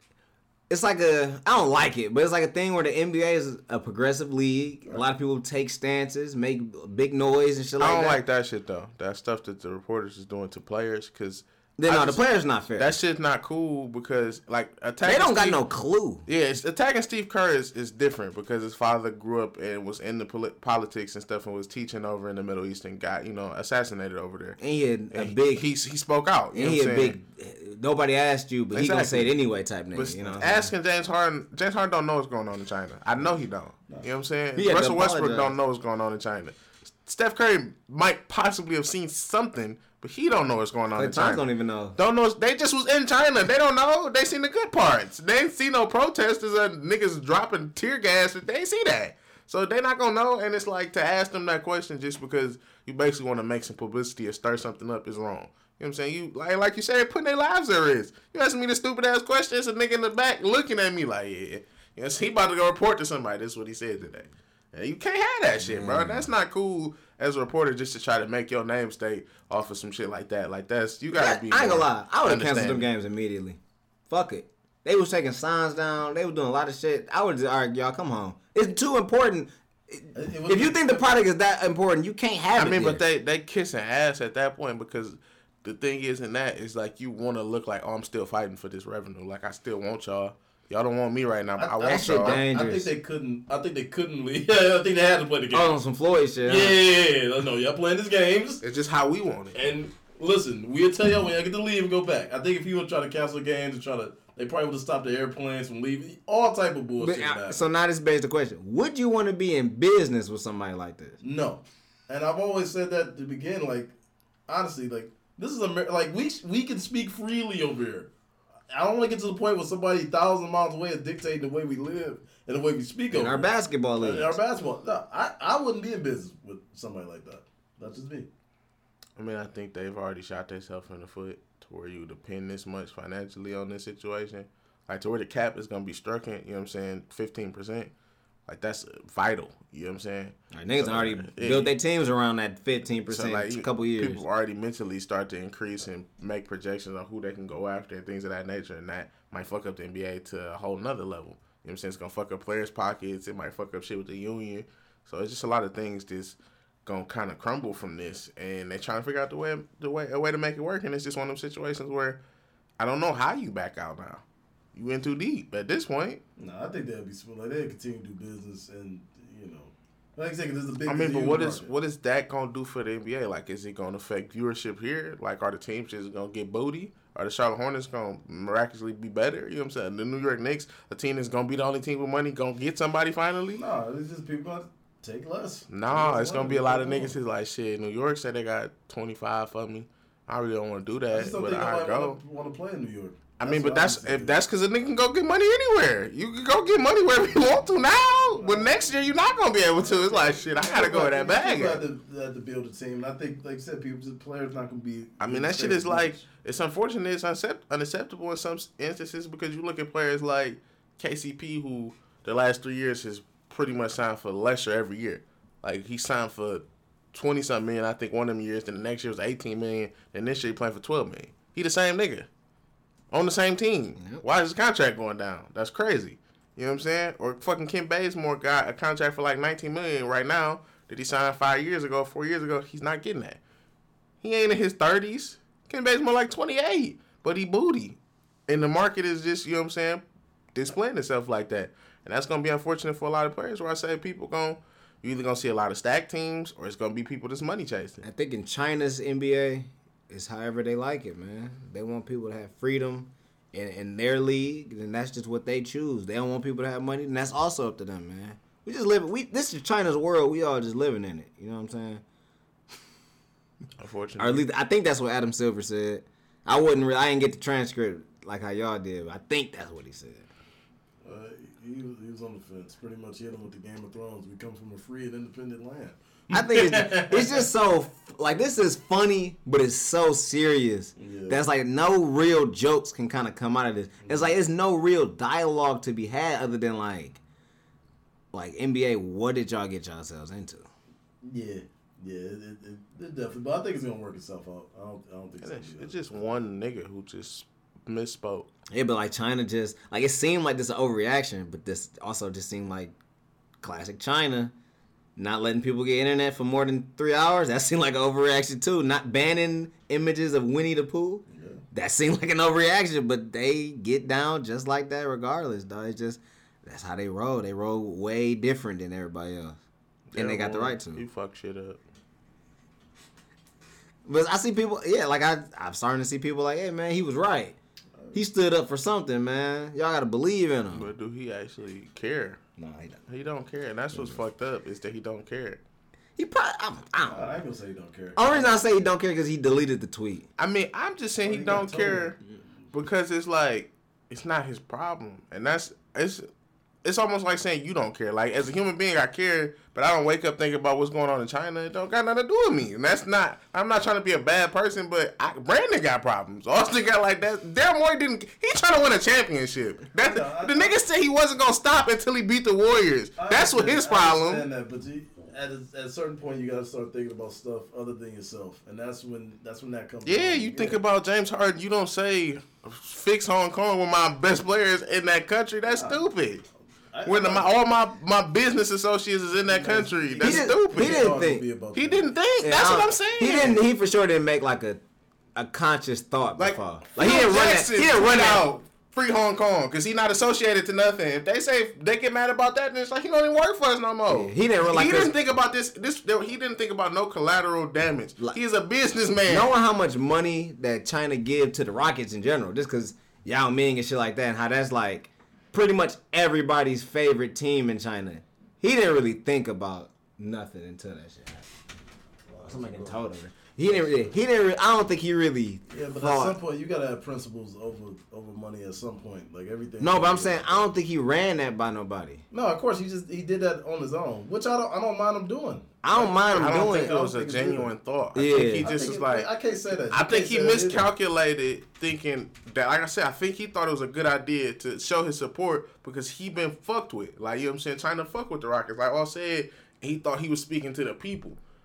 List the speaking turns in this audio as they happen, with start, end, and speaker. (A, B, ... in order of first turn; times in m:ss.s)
0:00.7-0:08.2 A
0:07.8-0:12.2 B
0:11.8-0:13.0 A
0:12.8-0:15.6 B
0:15.0-0:16.2 A
0:16.3-0:24.6 B
0:24.6-0:25.6 A
0:25.1-0:27.2 B
0:26.5-0:30.7 A
0:28.7-0:29.3 B
0:29.9-0:41.4 B
0:34.6-0:35.5 A
0:41.0-0:42.0 A
0:42.0-1:12.9 B
1:05.6-1:06.3 A
1:11.1-1:23.0 A
1:20.1-1:21.0 C
1:22.6-1:32.4 B
1:31.6-1:35.8 C
1:31.9-1:32.9 A
1:35.5-1:36.8 A
1:36.4-1:38.6 C
1:38.6-1:39.6 B
1:39.5-1:47.7 C
1:47.0-1:51.2 A
1:51.2-1:54.0 C
1:54.5-1:58.1 C
1:58.7-2:03.5 C
2:03.1-2:04.4 A
2:04.0-2:08.3 C
2:09.2-2:17.9 B
2:18.5-2:21.7 B
2:20.5-2:24.2 A
2:23.1-2:42.2 B
2:42.8-2:44.2 B
2:44.7-2:46.2 B
2:46.4-2:51.7 C
2:50.9-3:03.6 B
3:03.6-3:07.1 C
3:05.7-3:12.2 B
3:11.1-3:14.4 C
3:13.4-3:21.8 B
3:18.4-3:18.7 C
3:19.8-3:26.2 C
3:25.2-3:42.3 B
3:43.1-3:53.4 B
3:44.0-3:44.2 A
3:54.2-4:00.0 B
4:00.6-4:08.0 B
4:08.0-4:22.0 A
4:23.8-4:24.5 B
4:24.2-4:30.3 A
4:31.0-4:37.5 C
4:36.3-4:47.2 A
4:41.0-4:41.4 C
4:44.0-4:44.3 C
4:48.3-4:50.7 A
4:51.2-4:56.2 C
4:55.4-4:58.5 B
4:58.7-5:03.0 A
5:03.6-5:04.5 A
5:05.2-5:19.6 A
5:11.3-5:11.6 C
5:20.1-5:21.8 B
5:20.2-5:21.0 A
5:24.1-5:27.6 A
5:28.1-5:30.9 A
5:30.7-5:32.4 B
5:32.6-5:33.0 A
5:33.1-5:35.6 B
5:33.9-5:34.2 A
5:36.2-5:37.4 A
5:37.1-5:38.6 C
5:38.2-5:40.3 A
5:40.4-5:42.2 B
5:41.2-5:42.2 C
5:42.7-5:46.2 B
5:46.8-6:04.5 B
6:00.0-6:00.7 C
6:03.2-6:10.8 C
6:10.0-6:16.5 B
6:15.7-6:16.0 C
6:16.9-6:17.5 C
6:17.0-6:21.1 B
6:19.4-6:22.1 C
6:20.2-6:21.4 A
6:21.8-6:23.6 B
6:22.4-6:24.8 A
6:25.4-6:28.5 A
6:26.4-6:39.5 B
6:34.1-6:35.1 A
6:39.3-6:51.5 A
6:52.3-6:53.0 C
6:52.4-6:56.4 A
6:53.6-6:54.1 C
6:55.7-7:00.7 C
6:59.8-7:02.2 A
7:02.3-7:07.7 C
7:05.8-7:06.9 A
7:06.3-7:09.3 B
7:08.2-7:08.8 A
7:08.6-7:10.9 C
7:09.9-7:21.4 B